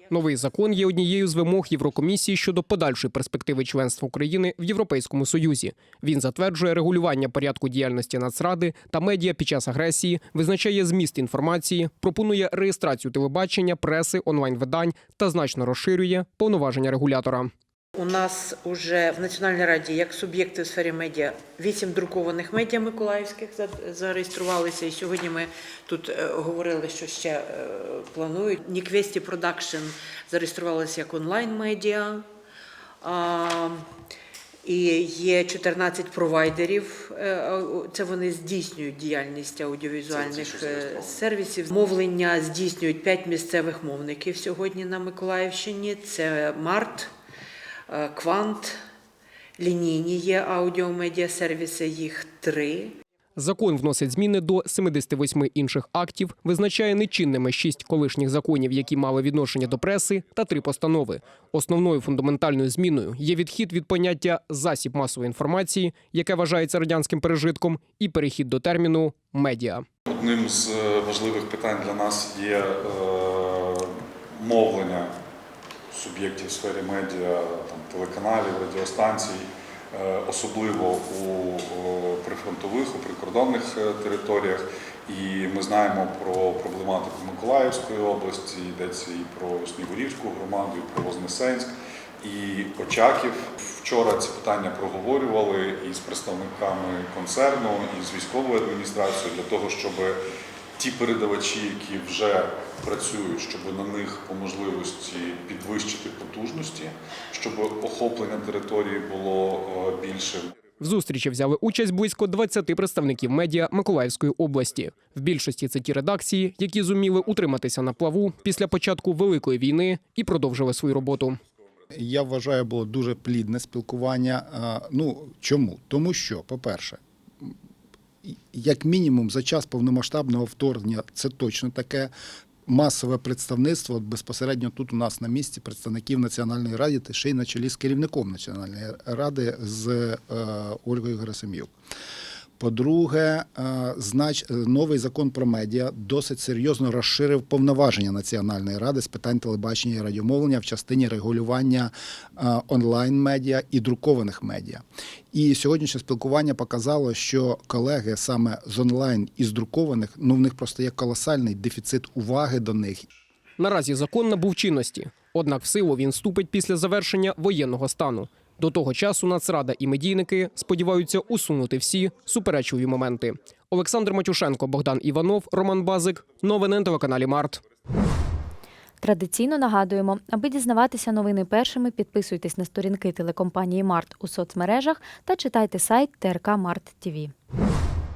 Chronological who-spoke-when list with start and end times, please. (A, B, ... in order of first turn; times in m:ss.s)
0:00.1-0:17.5 A
0:17.9-0:32.3 B
0:33.0-0:33.8 B
0:34.6-0:47.1 B
0:40.1-0:41.2 C
0:47.9-0:48.8 B
0:49.6-0:53.0 B
0:53.4-1:09.8 A
1:10.1-1:15.1 C
1:15.9-1:40.2 C
1:40.8-1:50.5 C
1:50.8-2:01.4 A
2:01.9-2:07.5 D
2:08.2-2:12.1 D
2:12.7-2:21.7 D
2:22.6-2:43.1 D
2:43.6-2:57.6 A
2:59.0-3:07.3 E